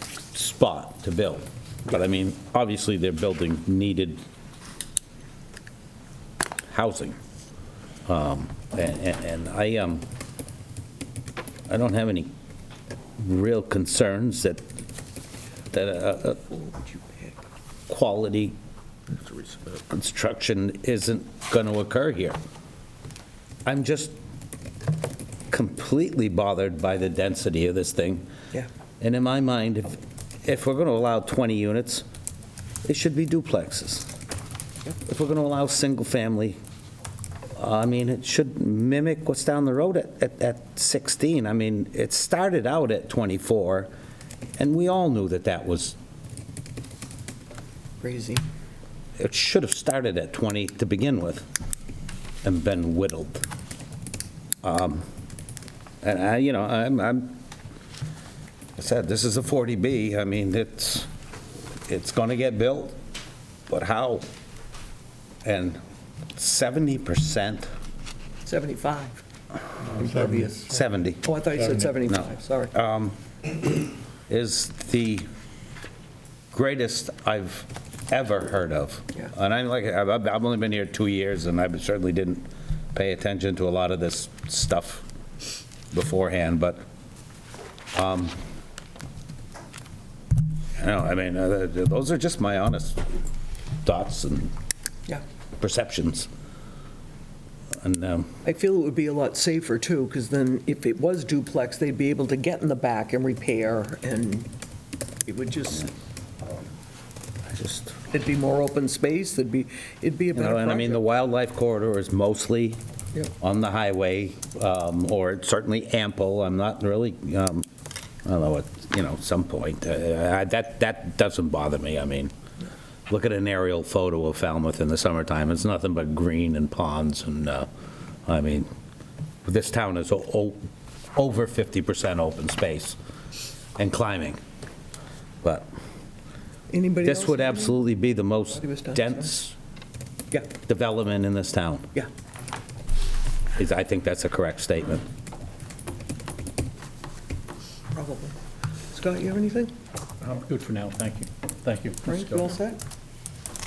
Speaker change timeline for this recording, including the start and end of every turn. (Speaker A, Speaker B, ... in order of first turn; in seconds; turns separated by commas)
Speaker A: 0.3-4.2, Speaker A: 6.7-7.2, Speaker A: 8.1-10.1, Speaker A: 11.7-12.3, Speaker A: 13.2-14.7, Speaker A: 15.7-16.4, Speaker B: 16.5-17.4, Speaker A: 17.9-18.6, Speaker A: 19.9-22.4, Speaker A: 23.7-24.1, Speaker A: 25.5-28.2, Speaker A: 29.0-32.0, Speaker A: 32.9-34.1, Speaker A: 35.0-36.6, Speaker A: 37.6-43.9, Speaker A: 44.6-46.0, Speaker B: 48.0-48.4, Speaker A: 49.2-51.5, Speaker A: 52.4-53.5, Speaker A: 54.6-55.1, Speaker A: 56.0-57.4, Speaker A: 58.8-61.1, Speaker A: 61.9-63.0, Speaker A: 63.7-64.3, Speaker A: 65.5-65.8, Speaker A: 66.4-67.7, Speaker B: 68.5-69.2, Speaker B: 69.8-70.7, Speaker C: 70.0-70.2, Speaker A: 70.7-71.3, Speaker B: 71.2-72.7, Speaker A: 72.1-73.2, Speaker A: 74.3-75.3, Speaker A: 76.5-85.1, Speaker A: 85.9-86.8, Speaker A: 87.9-88.3, Speaker A: 90.8-93.0, Speaker A: 93.8-94.5, Speaker A: 95.6-96.3, Speaker A: 97.8-98.4, Speaker B: 98.4-104.5, Speaker B: 105.2-105.9, Speaker A: 107.5-108.0, Speaker B: 108.1-111.0, Speaker A: 110.3-112.8, Speaker A: 113.4-117.7, Speaker A: 118.2-122.3, Speaker A: 123.1-127.7, Speaker A: 128.3-128.7, Speaker A: 129.4-130.6, Speaker A: 131.2-133.0, Speaker A: 133.8-134.4, Speaker B: 136.7-137.8, Speaker A: 137.0-139.6, Speaker B: 138.5-139.3, Speaker A: 140.6-141.9, Speaker A: 143.6-145.1, Speaker B: 147.9-148.3, Speaker B: 148.9-149.7, Speaker C: 150.2-152.5, Speaker B: 152.1-152.8